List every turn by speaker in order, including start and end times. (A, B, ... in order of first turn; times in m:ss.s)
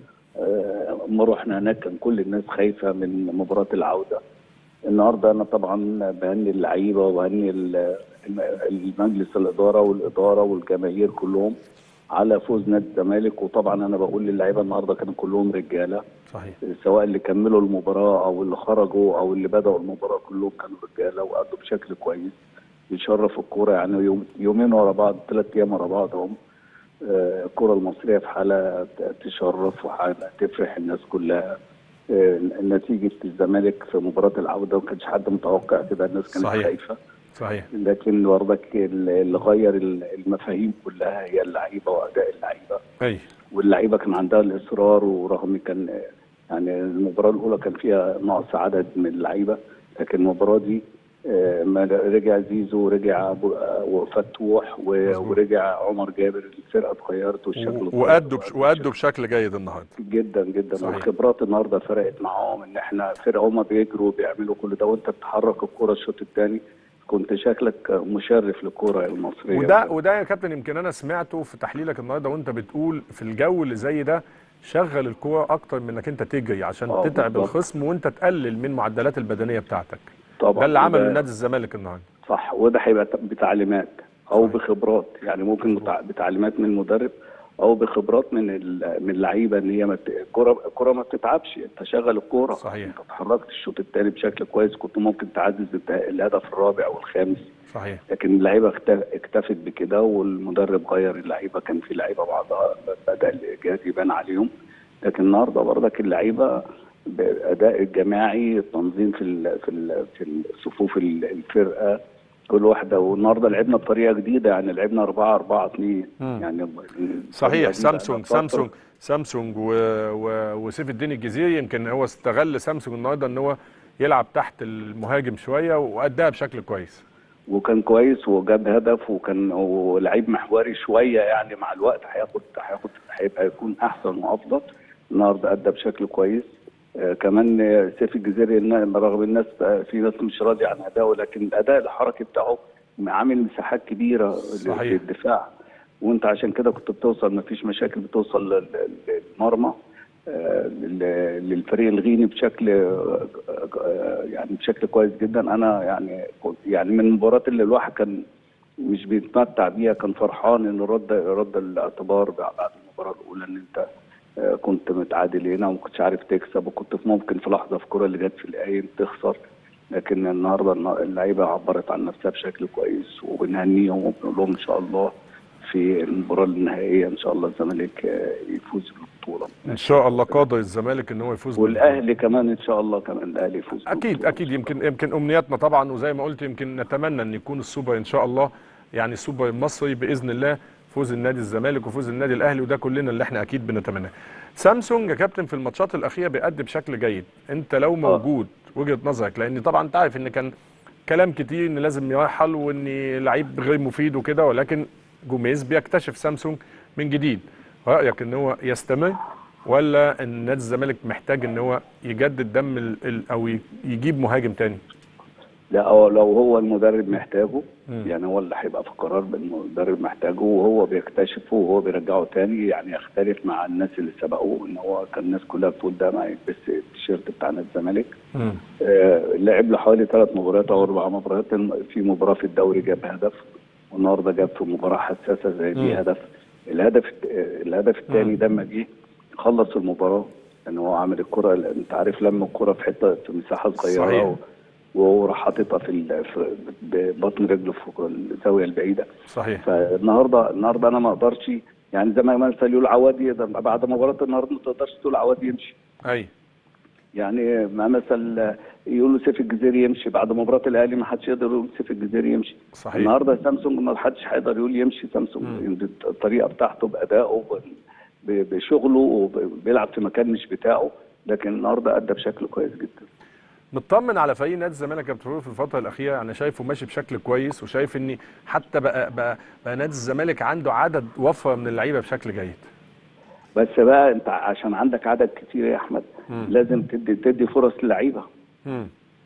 0:00.4-0:04.2 A
0:04.9-0:11.5 A
0:12.2-0:16.0 A
0:16.3-0:16.6 B
0:16.6-0:26.3 A
0:27.0-0:31.5 A
0:32.1-0:37.0 A
0:36.4-0:36.7 B
0:37.3-0:37.7 B
0:37.7-0:42.8 A
0:43.0-0:43.2 B
0:43.5-0:58.9 A
0:55.1-0:55.4 B
0:57.6-0:59.9 B
1:00.0-1:09.9 A
1:00.8-1:01.0 B
1:09.5-1:22.0 B
1:16.9-1:17.5 A
1:20.4-1:21.2 A
1:22.2-1:37.5 A
1:25.6-1:25.9 B
1:32.6-1:32.9 B
1:37.7-1:38.0 B
1:38.1-1:44.5 A
1:45.0-1:52.0 A
1:52.5-1:58.7 A
1:57.3-2:07.0 B
2:07.5-2:25.5 A
2:24.6-2:25.0 B
2:26.0-2:29.7 A
2:30.3-2:38.2 A
2:38.8-2:43.8 A
2:44.4-2:49.4 A
2:49.9-2:55.1 A
2:55.6-3:00.4 A
2:59.7-3:02.0 B
3:01.6-3:04.6 A
3:03.8-3:20.5 B
3:21.1-3:34.8 B
3:35.7-3:48.1 A
3:48.3-3:48.6 B
3:48.8-3:56.2 A
3:56.7-3:58.9 A
3:58.1-3:58.3 B
3:59.4-4:04.4 A
4:03.8-4:04.3 B
4:05.0-4:09.1 A
4:09.3-4:09.6 B
4:09.6-4:15.8 A
4:17.2-4:27.7 A
4:22.7-4:23.1 B
4:28.2-4:33.1 A
4:33.7-4:42.7 B
4:43.6-4:48.2 A
4:48.6-4:48.9 B